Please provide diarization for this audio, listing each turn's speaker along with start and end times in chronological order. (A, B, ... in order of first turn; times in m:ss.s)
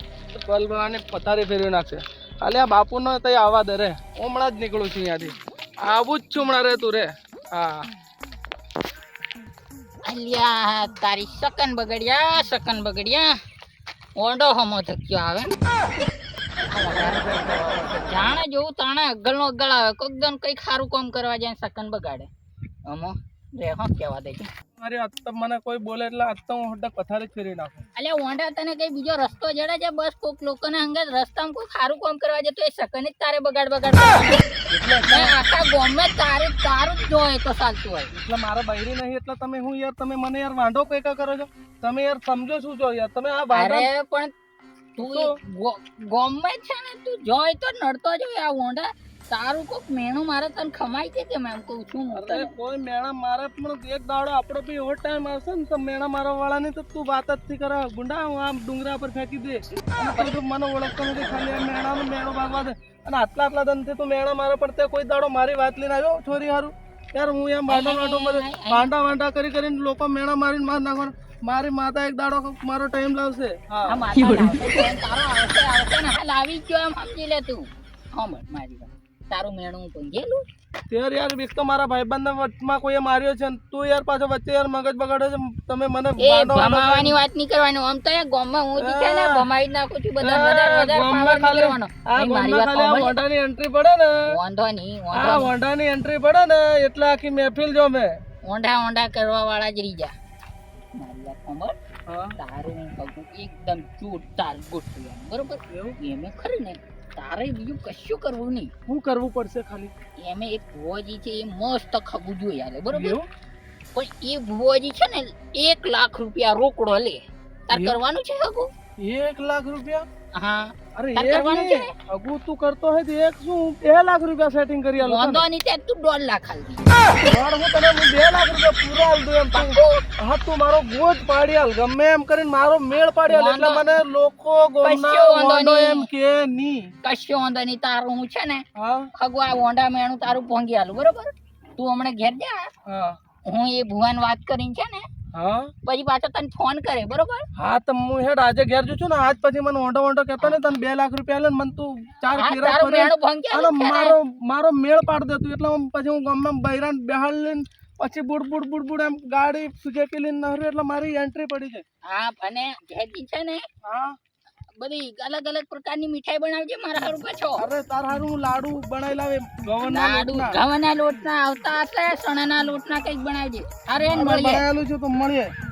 0:00.3-0:07.9 A
0:10.0-0:13.4 B
0:14.2-0:15.5 B
0:16.7-0:22.3 B
0:22.9-0:24.5 B
0:24.8-0:27.8 A
0:28.0-0:34.4 B
0:34.7-0:35.4 A
0:35.1-0:38.1 B
0:38.1-0:43.9 A
0:43.5-0:44.3 B
0:45.0-0:52.5 B
0:45.0-0:45.3 A
0:52.1-1:14.0 A
1:00.0-1:00.4 B
1:07.7-1:08.9 B
1:13.9-1:20.4 B
1:20.9-1:27.2 A
1:26.2-1:33.1 B
1:28.8-1:29.4 A
1:30.2-1:34.1 A
1:34.3-1:35.5 B
1:35.1-1:38.2 A
1:38.4-1:40.1 B
1:40.9-1:41.7 B
1:42.1-1:42.4 A
1:42.4-1:48.7 B
1:45.7-1:46.0 A
1:48.9-1:49.9 A
1:50.2-1:53.2 B
1:52.9-1:53.3 A
1:53.9-1:58.7 B
1:57.7-1:58.0 A
1:59.0-2:00.0 A
2:00.3-2:01.9 B
2:01.0-2:05.4 A
2:05.0-2:06.9 B
2:07.2-2:16.9 A
2:09.5-2:10.0 B
2:13.3-2:13.8 B
2:14.8-2:16.1 B
2:17.0-2:18.6 B
2:18.8-2:19.1 A
2:19.1-2:22.7 B
2:22.8-2:23.2 A
2:23.4-2:25.1 B
2:25.3-2:25.7 A
2:25.8-2:27.4 B
2:27.6-2:41.8 A
2:30.4-2:30.7 B
2:32.3-2:34.2 B
2:42.1-2:43.6 B
2:43.8-2:44.2 A
2:44.8-2:47.6 B
2:47.6-2:50.6 A
2:49.8-2:54.6 B
2:54.1-2:55.5 A